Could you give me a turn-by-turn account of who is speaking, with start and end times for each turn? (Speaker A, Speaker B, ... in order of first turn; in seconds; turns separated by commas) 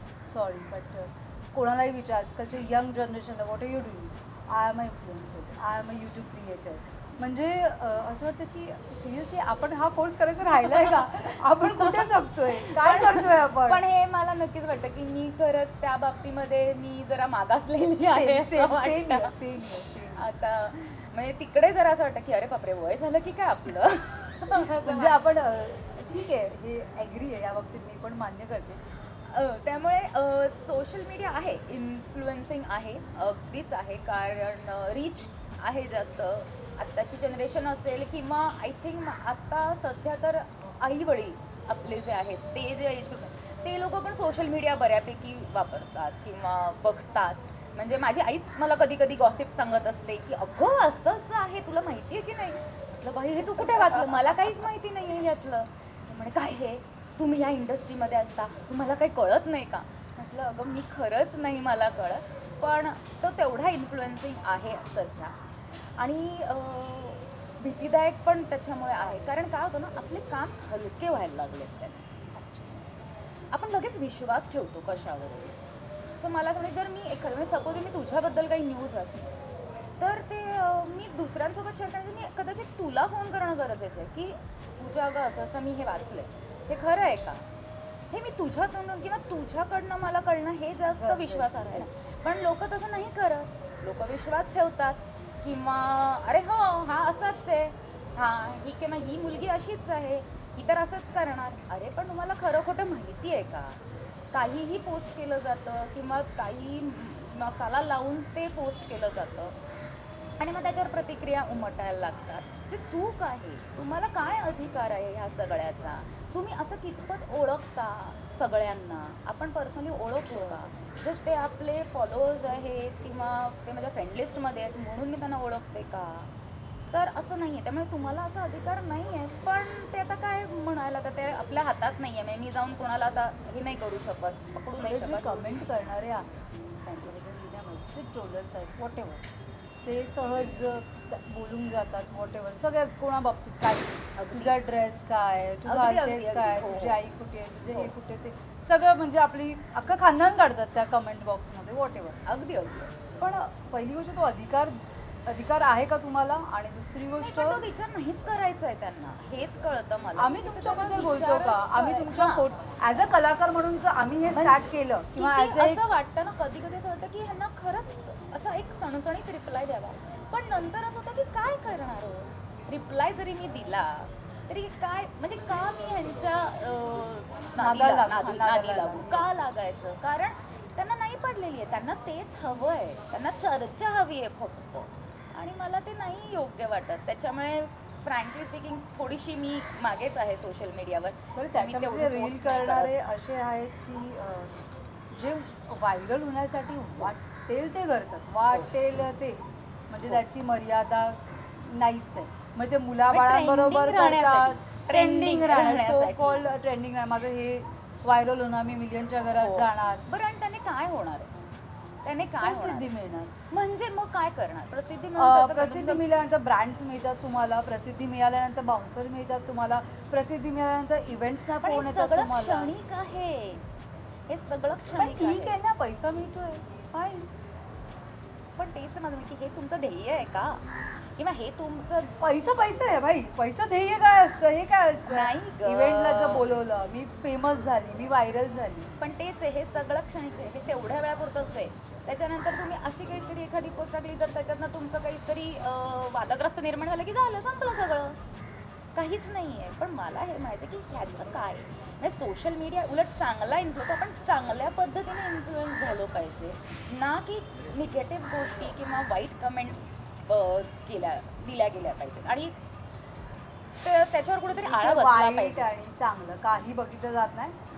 Speaker A: 0.2-13.8, Speaker B: 10.5-19.4, Speaker A: 18.1-20.3, Speaker B: 20.1-25.2, Speaker A: 24.6-28.9, Speaker B: 29.2-72.0, Speaker A: 53.6-54.7, Speaker A: 72.3-72.9, Speaker B: 73.5-75.6, Speaker B: 76.2-79.3, Speaker B: 80.0-87.5, Speaker B: 88.1-103.8, Speaker A: 90.9-91.9, Speaker B: 104.3-109.6, Speaker B: 110.4-126.3, Speaker B: 126.9-135.7, Speaker A: 134.8-136.3, Speaker A: 136.8-139.2, Speaker A: 139.8-152.2, Speaker B: 144.2-144.5, Speaker B: 145.7-147.0, Speaker B: 152.2-152.9, Speaker A: 153.2-157.7, Speaker B: 157.2-162.4, Speaker A: 160.2-165.8, Speaker B: 164.3-192.9, Speaker A: 177.6-179.3, Speaker A: 191.3-210.0, Speaker B: 203.1-206.4, Speaker B: 209.3-211.3, Speaker B: 212.0-212.9, Speaker A: 212.4-213.3, Speaker B: 213.5-216.0, Speaker A: 215.2-222.7, Speaker B: 221.6-223.6, Speaker B: 224.3-225.5, Speaker A: 224.9-227.3, Speaker B: 228.6-230.6, Speaker B: 231.2-232.1, Speaker A: 232.2-238.9, Speaker B: 235.1-236.4, Speaker B: 239.0-248.2, Speaker B: 248.9-262.5, Speaker B: 263.8-265.7, Speaker A: 264.5-267.6